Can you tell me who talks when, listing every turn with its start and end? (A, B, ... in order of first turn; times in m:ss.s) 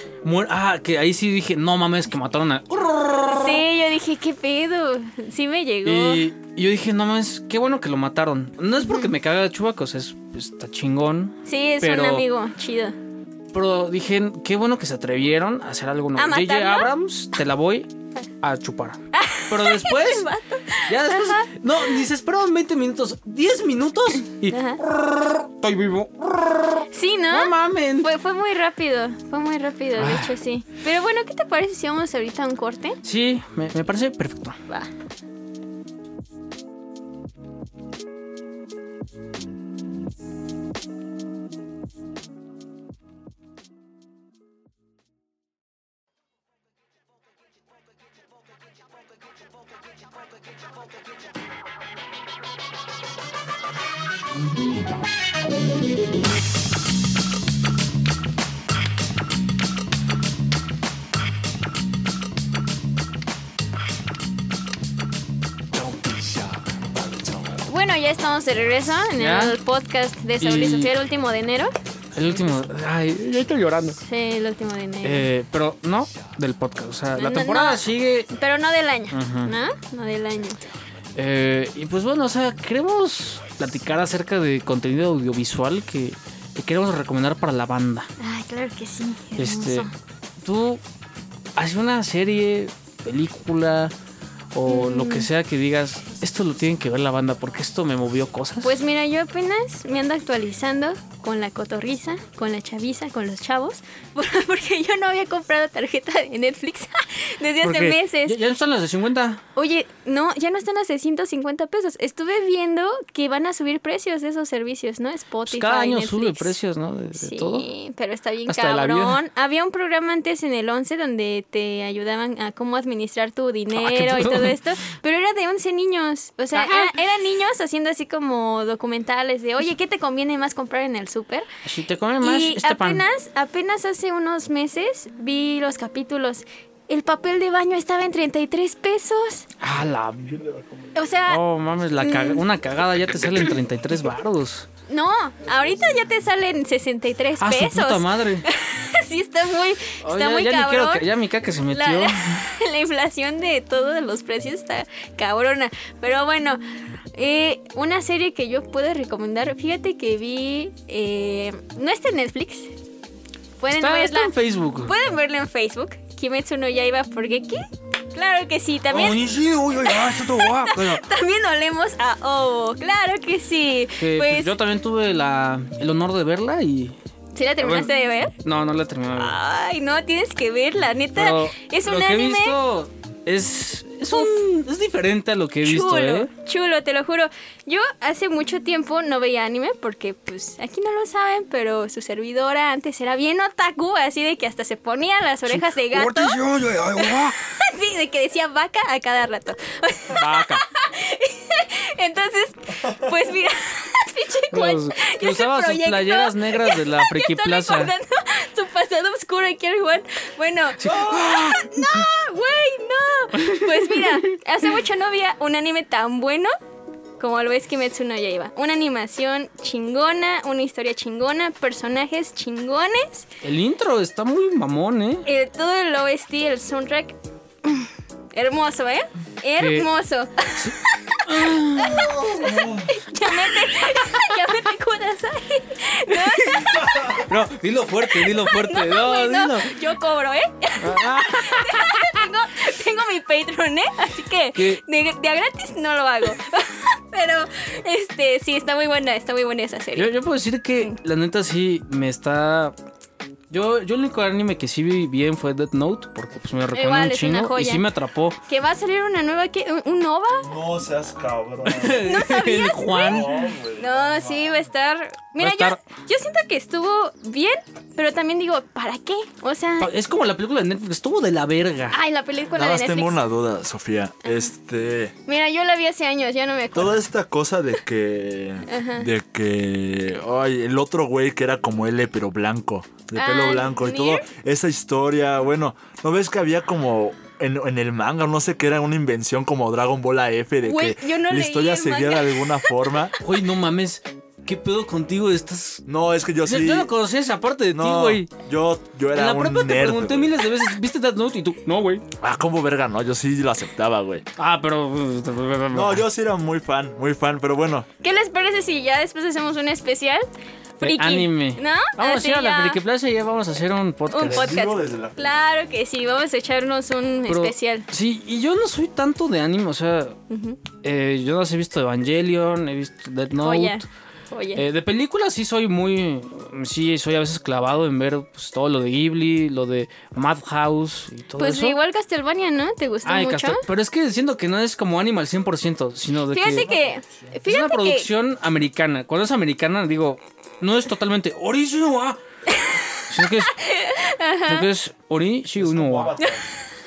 0:00.2-0:03.6 A
0:03.3-0:06.2 B
0:05.8-0:12.2 A
0:08.8-0:09.1 B
0:11.4-0:13.0 B
0:13.5-0:17.9 A
0:16.2-0:16.9 B
0:18.4-0:20.3 A
0:19.1-0:22.0 B
0:20.8-0:28.1 A
0:24.5-0:24.8 B
0:26.9-0:33.0 B
0:30.0-0:30.3 A
0:33.0-0:34.6 A
1:05.7-1:06.5 A
1:07.6-1:11.7 B
1:09.2-1:09.6 A
1:10.4-1:10.9 A
1:12.1-1:14.0 A
1:12.2-1:12.6 B
1:14.0-1:15.3 B
1:15.0-1:18.3 A
1:17.2-1:20.6 B
1:19.1-1:19.5 A
1:21.2-1:28.1 A
1:28.2-1:29.9 B
1:29.4-1:29.9 A
1:30.4-1:30.8 A
1:31.6-1:33.9 A
1:34.5-1:38.7 A
1:34.7-1:35.3 B
1:38.6-1:48.4 B
1:47.6-1:49.4 A
1:49.6-1:56.5 B
1:55.5-1:57.6 A
1:57.2-2:11.5 B
1:58.5-1:59.2 A
2:03.7-2:04.6 A
2:06.5-2:07.0 A
2:11.6-2:13.0 A
2:12.2-2:19.4 B
2:19.6-2:20.4 A
2:20.4-2:20.9 C
2:20.9-2:21.4 B
2:21.3-2:24.7 A
2:22.0-2:22.4 B
2:24.9-2:31.0 B
2:27.4-2:28.5 A
2:30.0-2:32.4 A
2:31.7-2:36.6 B
2:37.1-2:42.7 B
2:43.6-2:44.3 B
2:43.7-2:44.9 A
2:44.8-2:49.2 B
2:48.9-2:51.0 A
2:49.9-2:54.6 B
2:54.0-2:56.9 A
2:57.3-2:58.3 B
2:57.6-2:59.4 A
2:59.1-3:02.6 B
3:01.1-3:06.3 A
3:04.1-3:04.4 B
3:05.6-3:16.4 B
3:15.5-3:17.4 A
3:17.0-3:36.5 B
3:20.1-3:20.6 A
3:24.5-3:27.9 A
3:30.8-3:32.1 A
3:33.4-3:34.3 A
3:37.2-3:43.3 B
3:43.4-3:45.2 A
3:45.2-3:57.3 B
3:49.6-3:49.9 A
3:50.6-3:52.3 A
3:52.3-3:52.9 C
3:56.1-3:59.7 A
3:58.1-4:10.1 B
4:00.8-4:02.2 A
4:04.6-4:04.8 A
4:10.0-4:12.7 A
4:13.5-4:18.4 A
4:16.7-4:17.8 B
4:18.5-4:20.5 B
4:20.4-4:22.3 C
4:21.6-4:23.3 A
4:22.0-4:29.9 B
4:22.9-4:24.7 C
4:25.4-4:25.8 A
4:29.8-4:32.0 A
4:31.9-4:33.2 B
4:32.5-4:35.1 C
4:35.2-4:37.0 B
4:36.7-4:53.2 C
4:38.7-4:39.1 B
4:43.1-4:44.3 B
4:50.6-4:52.7 B
4:53.2-4:55.8 A
4:55.8-4:56.9 C
4:56.4-4:58.3 A
4:57.7-5:00.4 C
4:59.1-5:02.0 A
5:02.2-5:04.2 C
5:04.4-5:06.0 A
5:05.7-5:07.9 C
5:08.0-5:10.2 B
5:10.8-5:12.8 B
5:10.8-5:14.6 A
5:14.1-5:17.9 B
5:14.2-5:15.2 C
5:17.3-5:20.2 A
5:20.3-5:20.6 B
5:20.8-5:23.8 A
5:23.4-5:24.6 B
5:24.5-5:31.8 A
5:31.4-5:33.6 B
5:33.0-5:36.7 A
5:36.3-5:38.1 B
5:36.5-5:37.4 C
5:37.4-5:42.2 A
5:42.5-5:44.7 B
5:43.1-5:43.6 A
5:44.4-5:46.2 A
5:45.6-5:46.4 C